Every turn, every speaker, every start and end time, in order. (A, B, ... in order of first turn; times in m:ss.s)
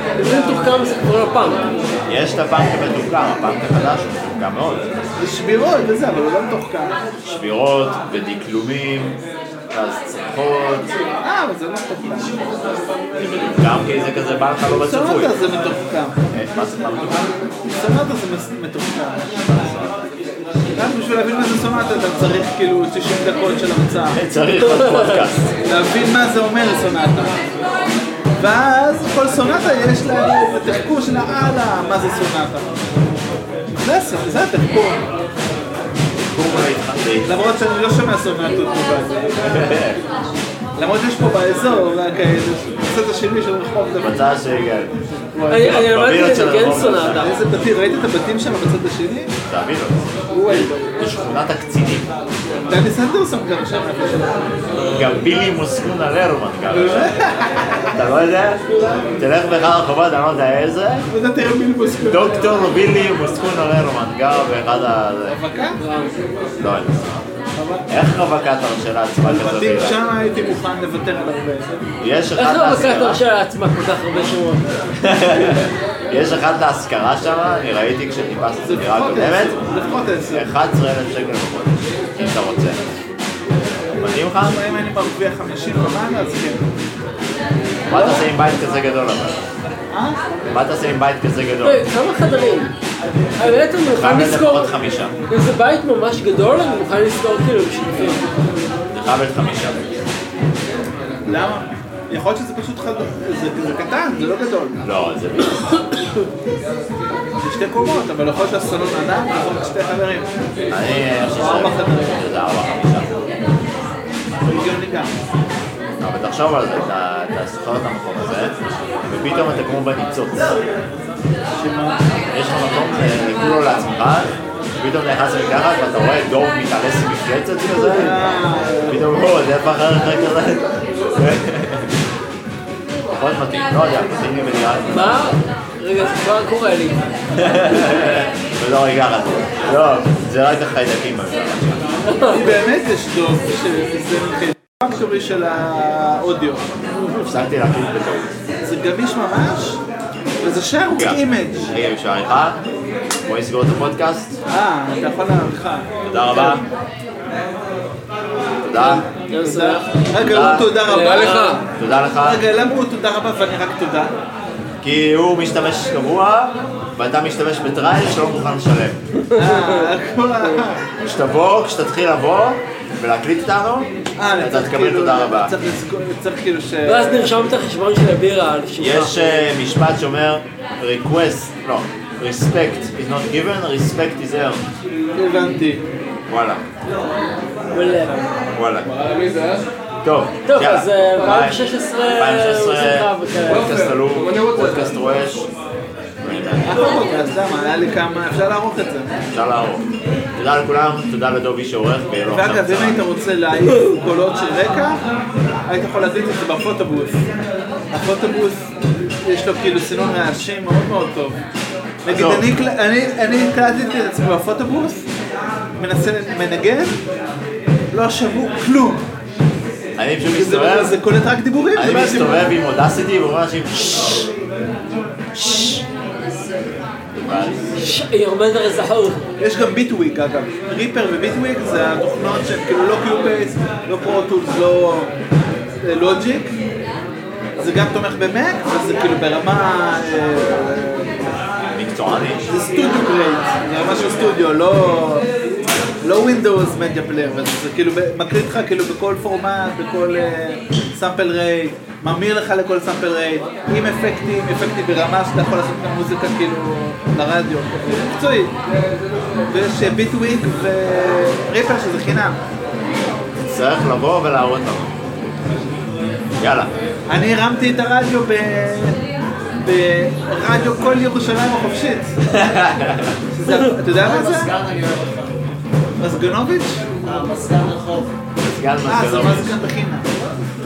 0:00.2-0:01.7 A
0:02.1-0:04.9 B
0:05.2-0:07.0 C
0:07.2-0:09.2 B
0:09.7-0:10.9 B
0:11.2-0:12.5 C
0:13.2-0:15.4 B
0:14.7-0:16.2 C
0:16.3-0:17.3 B
0:17.7-0:19.4 C
0:19.5-0:20.0 B
0:20.7-0:24.2 C
0:24.1-0:25.6 B
0:24.6-0:25.3 A
0:25.7-0:27.4 C
0:28.4-0:32.7 C
0:33.8-0:35.1 C
0:36.2-0:37.4 B
0:37.3-0:39.8 C
0:39.4-0:40.0 B
0:40.8-0:44.4 C
0:44.0-0:44.9 B
0:45.3-0:45.8 C
0:45.5-0:47.3 A
0:45.6-0:47.4 B
0:47.1-0:49.3 C
0:49.5-0:52.1 B
0:50.3-0:50.9 C
0:52.7-0:54.6 C
0:54.7-0:57.2 B
0:56.7-0:57.9 C
0:57.9-0:58.6 B
0:59.2-1:01.1 B
1:01.1-1:02.6 C
1:02.1-1:05.4 B
1:05.3-1:05.8 C
1:05.8-1:06.2 A
1:06.6-1:07.2 B
1:07.6-1:07.9 C
1:07.9-1:10.1 B
1:09.2-1:11.8 C
1:12.0-1:13.2 B
1:12.4-1:14.7 A
1:15.0-1:19.6 B
1:18.6-1:20.5 C
1:20.3-1:22.8 B
1:24.0-1:24.6 B
1:24.4-1:26.6 C
1:27.9-1:29.4 B
1:27.9-1:28.3 C
1:29.9-1:30.2 C
1:30.5-1:31.8 B
1:31.6-1:32.7 A
1:33.4-1:34.7 A
1:33.8-1:35.2 B
1:35.3-1:38.3 A
1:38.9-1:39.9 B
1:41.2-1:44.8 C
1:44.8-1:45.9 B
1:47.4-1:50.3 C
1:50.7-1:53.3 B
1:51.4-1:52.2 C
1:54.4-1:55.1 C
1:56.0-1:58.6 B
1:59.1-2:00.6 B
2:01.6-2:02.0 C
2:02.3-2:08.2 B
2:07.7-2:09.1 C
2:08.9-2:11.9 B
2:13.1-2:15.3 B
2:14.9-2:17.1 A
2:17.4-2:21.9 B
2:22.1-2:22.4 A
2:22.3-2:26.7 C
2:27.2-2:28.3 B
2:28.6-2:29.8 C
2:30.4-2:31.7 C
2:30.9-2:32.6 B
2:33.3-2:34.4 B
2:34.5-2:36.6 C
2:36.1-2:36.6 B
2:38.6-2:39.1 B
2:38.8-2:41.7 C
2:39.3-2:39.9 A
2:40.2-2:40.8 B
2:40.7-2:41.6 A
2:41.0-2:41.5 D
2:41.8-2:42.4 B
2:42.2-2:44.1 C
2:44.8-2:49.0 B
2:49.2-2:49.8 A
2:49.3-2:50.8 C
2:51.0-2:55.5 B
2:54.2-2:57.5 C
2:56.9-2:59.4 A
2:58.8-3:04.7 B
3:05.2-3:05.8 C
3:06.3-3:06.6 B
3:07.7-3:08.2 A
3:08.5-3:08.9 B
3:08.8-3:09.6 D
3:10.0-3:15.5 B
3:10.5-3:13.8 A
3:13.5-3:15.0 D
3:16.2-3:17.0 B
3:16.6-3:19.2 C
3:19.3-3:23.1 B
3:22.3-3:25.0 C
3:25.7-3:27.2 C
3:27.9-3:28.6 C
3:29.2-3:31.4 C
3:32.0-3:35.1 C
3:32.1-3:32.5 B
3:35.8-3:37.0 C
3:37.9-3:39.0 C
3:40.0-3:41.0 B
3:40.3-3:42.5 C
3:41.7-3:44.3 B
3:45.3-3:45.8 B
3:47.2-3:47.7 B
3:47.7-3:49.2 A
3:49.4-3:55.1 C
3:55.8-3:56.6 C
3:57.6-4:01.3 C
4:01.7-4:02.5 B
4:02.5-4:05.3 C
4:06.0-4:18.6 C
4:19.4-4:22.4 C
4:23.5-4:25.0 B
4:26.4-4:26.7 B
4:27.1-4:29.0 C
4:29.6-4:32.2 C
4:32.3-4:33.2 B
4:33.3-4:34.5 C
4:33.8-4:35.4 E
4:36.0-4:36.8 C
4:37.0-4:38.1 E
4:38.4-4:39.6 B
4:38.9-4:40.1 C